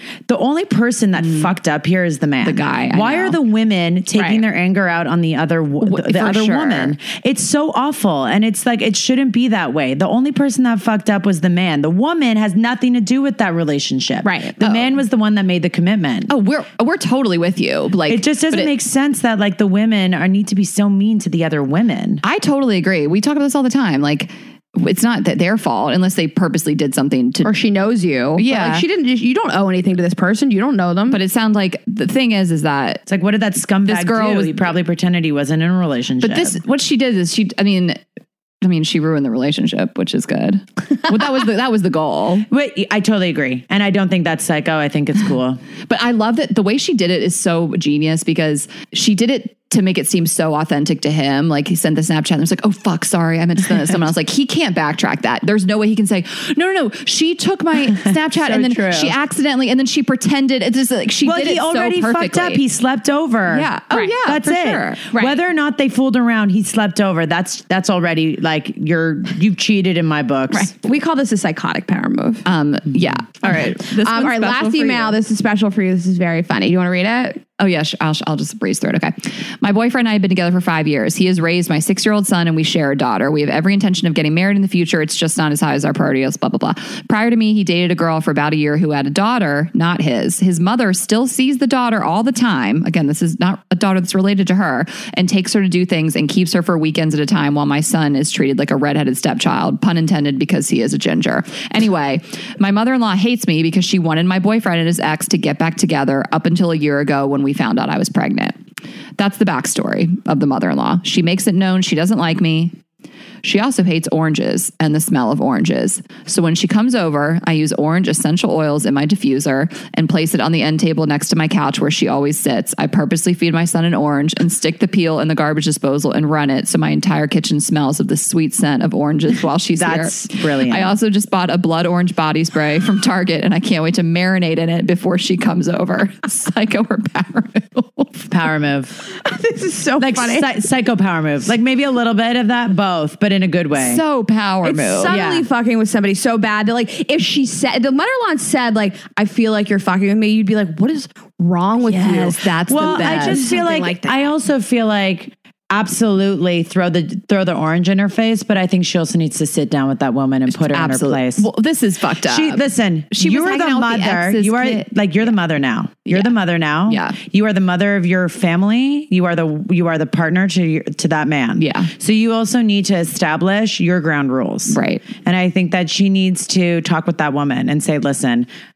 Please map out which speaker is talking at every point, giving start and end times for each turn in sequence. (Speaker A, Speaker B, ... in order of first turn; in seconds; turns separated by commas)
Speaker A: 0.3-16.3, Speaker B: 1.2-1.5, Speaker B: 2.4-3.4, Speaker C: 4.2-4.4, Speaker B: 5.8-6.9, Speaker C: 14.2-14.8, Speaker B: 16.3-18.7, Speaker A: 18.1-22.2, Speaker B: 22.2-27.5, Speaker C: 27.4-31.2, Speaker B: 28.4-28.8, Speaker B: 31.1-33.0, Speaker A: 33.1-36.6, Speaker B: 33.9-34.6, Speaker B: 36.2-38.0, Speaker B: 38.6-42.5, Speaker A: 42.5-45.6, Speaker B: 45.9-62.6, Speaker A: 58.0-59.1, Speaker A: 61.2-63.7, Speaker B: 63.5-65.1, Speaker C: 63.9-64.2, Speaker A: 64.2-70.7, Speaker C: 65.1-65.4, Speaker C: 70.5-72.4, Speaker B: 72.5-75.1, Speaker C: 73.4-77.4, Speaker B: 77.6-108.5, Speaker B: 109.2-112.7, Speaker B: 113.4-138.1, Speaker A: 129.8-130.9, Speaker A: 138.2-138.9, Speaker C: 139.2-140.5, Speaker A: 140.0-144.0, Speaker B: 143.7-145.1, Speaker C: 144.6-154.3, Speaker A: 145.1-145.4, Speaker A: 151.9-161.4, Speaker B: 151.9-153.4, Speaker B: 160.5-165.3, Speaker A: 162.3-178.5, Speaker B: 166.9-167.2, Speaker B: 171.6-171.9, Speaker B: 174.7-175.0